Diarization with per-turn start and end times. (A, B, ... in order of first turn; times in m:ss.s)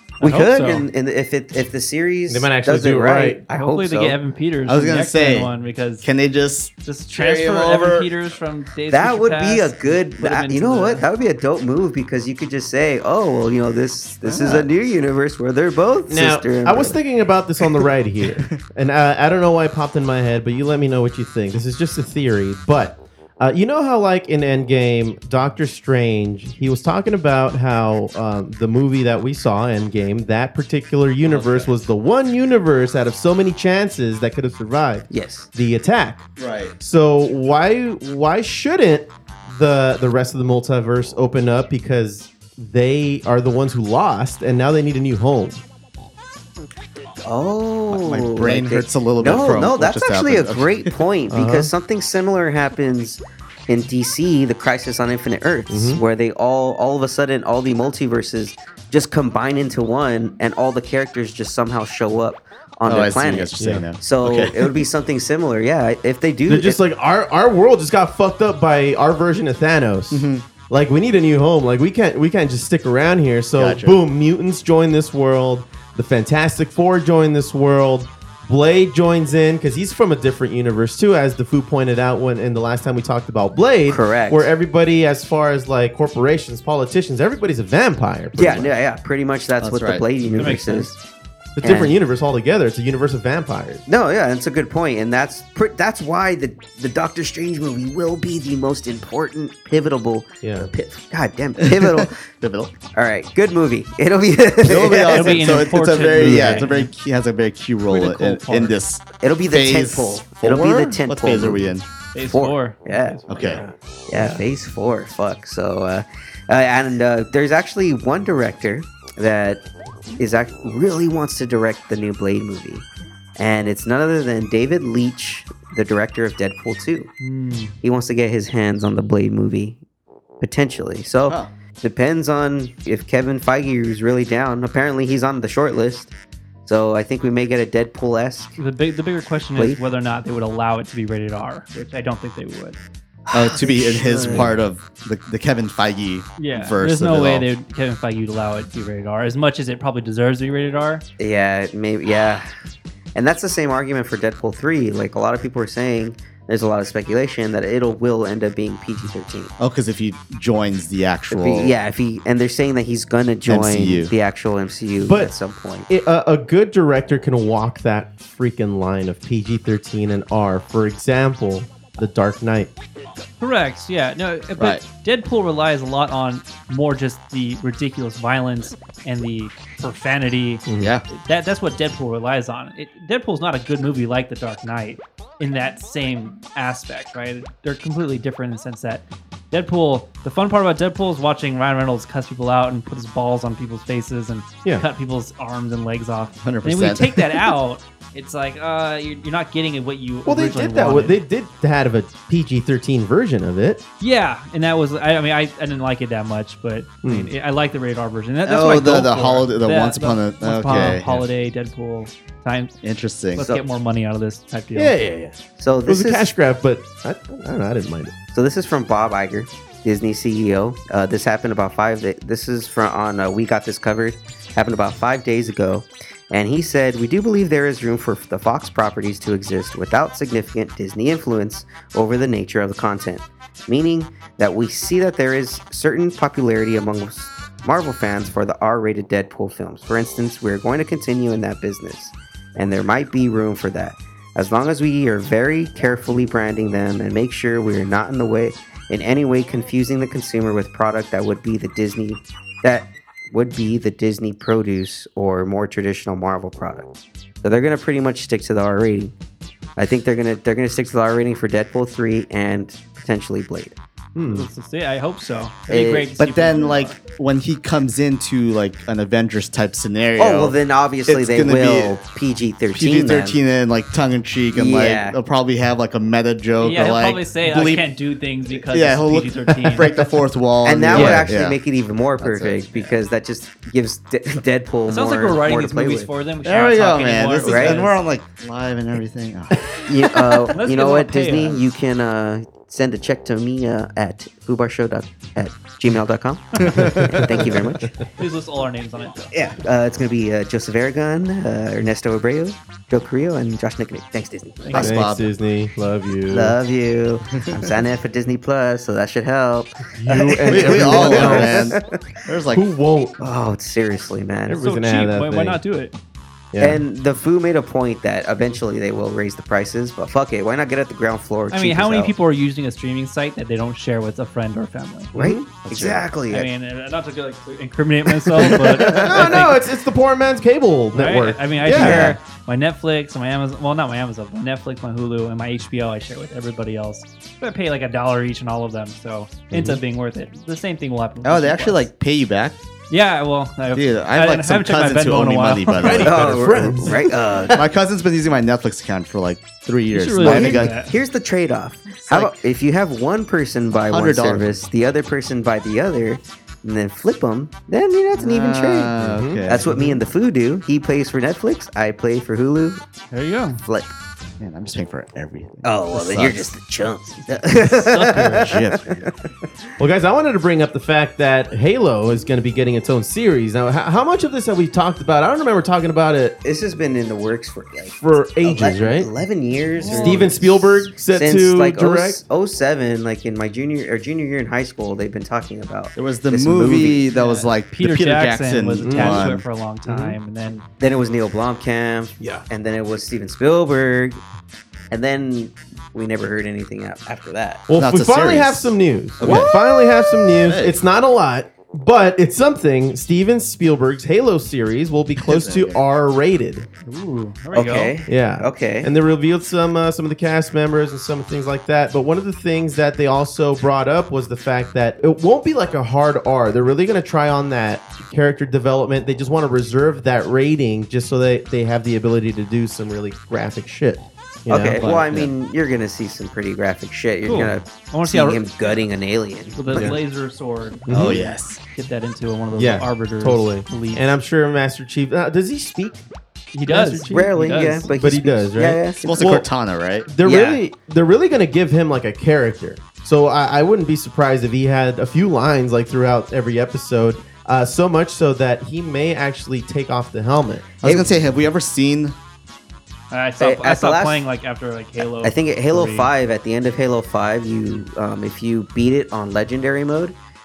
0:00.2-0:00.9 A
0:00.2-0:04.2 B
0:02.3-0:03.4 C
0:03.5-0:06.1 A
0:04.7-0:05.5 D
0:06.0-0:08.1 D
0:06.8-0:11.0 A
0:08.9-0:17.0 B
0:14.2-0:14.7 D
0:16.1-0:36.3 C
0:31.2-0:31.7 D
0:35.1-0:35.5 B
0:36.4-0:36.8 D
0:36.8-0:45.6 C
0:47.2-1:06.8 B
0:47.9-0:51.0 D
0:51.3-0:51.7 C
0:55.7-0:56.0 C
1:02.9-1:04.8 D
1:03.6-1:03.9 C
1:06.5-1:28.7 C
1:10.1-1:10.4 D
1:13.6-1:14.0 D
1:23.9-1:24.5 B
1:28.4-1:31.0 B
1:29.6-1:30.1 D
1:30.4-1:30.9 A
1:31.6-1:33.8 C
1:31.6-1:32.0 B
1:33.9-1:42.2 B
1:40.4-1:40.7 C
1:41.6-1:42.7 D
1:42.9-1:45.6 B
1:44.6-1:51.9 D
1:45.1-1:46.9 A
1:46.1-1:46.7 C
1:47.9-1:48.8 A
1:49.2-1:51.7 B
1:52.1-1:53.7 A
1:52.3-1:53.2 B
1:53.3-1:53.6 D
1:53.4-1:54.4 C
1:54.1-1:59.7 B
2:00.2-2:02.9 B
2:03.4-2:07.1 B
2:07.2-2:07.7 A
2:07.8-2:09.8 B
2:10.4-2:16.1 B
2:16.6-2:18.6 B
2:18.6-2:22.8 A
2:19.6-2:19.8 B
2:23.3-2:24.5 B
2:23.3-2:27.5 D
2:26.4-2:31.0 A
2:31.2-2:32.5 B
2:33.2-2:39.5 B
2:39.6-2:41.7 D
2:41.3-2:45.9 B
2:43.5-2:44.1 D
2:45.0-2:45.3 C
2:45.9-2:52.7 C
2:53.4-3:21.2 A
3:00.7-3:00.9 C
3:00.8-3:01.0 D
3:16.4-3:17.4 D
3:20.3-3:23.8 C
3:24.0-3:32.8 A
3:27.0-3:27.3 C
3:28.5-3:31.2 D
3:32.8-3:33.4 D
3:33.3-3:35.0 A
3:33.4-3:33.6 B
3:34.8-3:38.1 C
3:35.6-3:36.3 B
3:38.3-4:16.9 B
4:17.4-4:19.1 B
4:19.8-4:23.8 B
4:24.2-4:24.5 C
4:24.2-4:27.0 A
4:25.7-4:26.1 B
4:26.2-4:32.0 D
4:30.2-4:33.4 B
4:32.8-4:37.8 D
4:34.5-4:35.2 B
4:36.6-4:39.9 A
4:38.5-4:41.6 D
4:39.6-4:39.9 C
4:40.6-4:46.1 B
4:41.0-4:41.2 A
4:41.0-4:41.3 C
4:42.2-4:43.0 D
4:44.9-4:48.0 A
4:46.4-4:49.7 D
4:47.4-4:47.8 B
4:49.9-4:57.9 B
4:50.5-4:51.6 A
4:56.6-4:57.4 D
4:56.8-4:57.7 C
4:58.2-4:59.3 A
4:59.3-5:04.8 B
5:04.6-5:05.0 A
5:04.7-5:05.3 D
5:04.8-5:06.6 C
5:06.3-5:12.0 B
5:10.0-5:11.7 C
5:10.5-5:12.6 D
5:12.5-5:13.2 C
5:13.2-5:14.6 B
5:14.5-5:15.6 C
5:14.6-5:16.0 A
5:16.5-5:16.8 C
5:16.6-5:22.1 B
5:21.5-5:25.2 A
5:25.1-5:25.5 C
5:25.2-5:26.5 B
5:25.7-5:29.6 A
5:28.5-5:29.0 D
5:28.7-5:32.2 C
5:30.9-5:41.9 A
5:31.7-5:32.2 B
5:39.5-5:39.8 C
5:41.2-5:42.6 D
5:42.9-5:46.0 A
5:43.7-5:46.9 D
5:45.8-5:47.7 C
5:46.0-5:47.6 B
5:47.5-5:50.8 D
5:49.9-5:50.9 A
5:50.2-5:58.9 B
5:52.1-5:52.3 D
5:53.9-5:54.5 D
5:58.2-5:59.7 D
5:59.0-6:00.0 C
5:59.4-6:02.8 B
6:03.1-6:03.6 A
6:03.7-6:03.9 B
6:04.4-6:06.5 D
6:05.6-6:09.1 B
6:07.8-6:08.5 A
6:08.4-6:09.1 D
6:09.8-6:16.4 C
6:16.4-6:27.1 B
6:18.0-6:19.1 C
6:19.8-6:20.3 A
6:19.9-6:22.2 C
6:26.0-6:29.4 D
6:27.1-6:30.6 A
6:28.8-6:29.3 C
6:29.8-6:30.2 C
6:30.8-6:34.2 B
6:34.9-6:37.6 B
6:37.7-6:46.7 C
6:37.7-6:40.8 D
6:45.2-6:45.8 D
6:46.8-6:48.0 A
6:47.5-6:48.9 B
6:48.1-7:05.3 C
7:04.5-7:09.6 B
7:04.8-7:05.3 D
7:07.2-7:08.7 A
7:09.6-7:14.1 A
7:09.7-7:10.0 C
7:10.9-7:11.2 C
7:10.9-7:11.6 D
7:12.6-7:16.0 C
7:16.5-7:17.9 A
7:16.7-7:19.4 C
7:17.1-7:19.4 B
7:19.0-7:20.1 D
7:20.1-7:30.7 C
7:20.2-7:20.6 B
7:30.8-7:32.2 D
7:30.8-7:31.2 B
7:33.1-7:36.1 A
7:33.4-7:34.2 B
7:35.2-7:40.2 B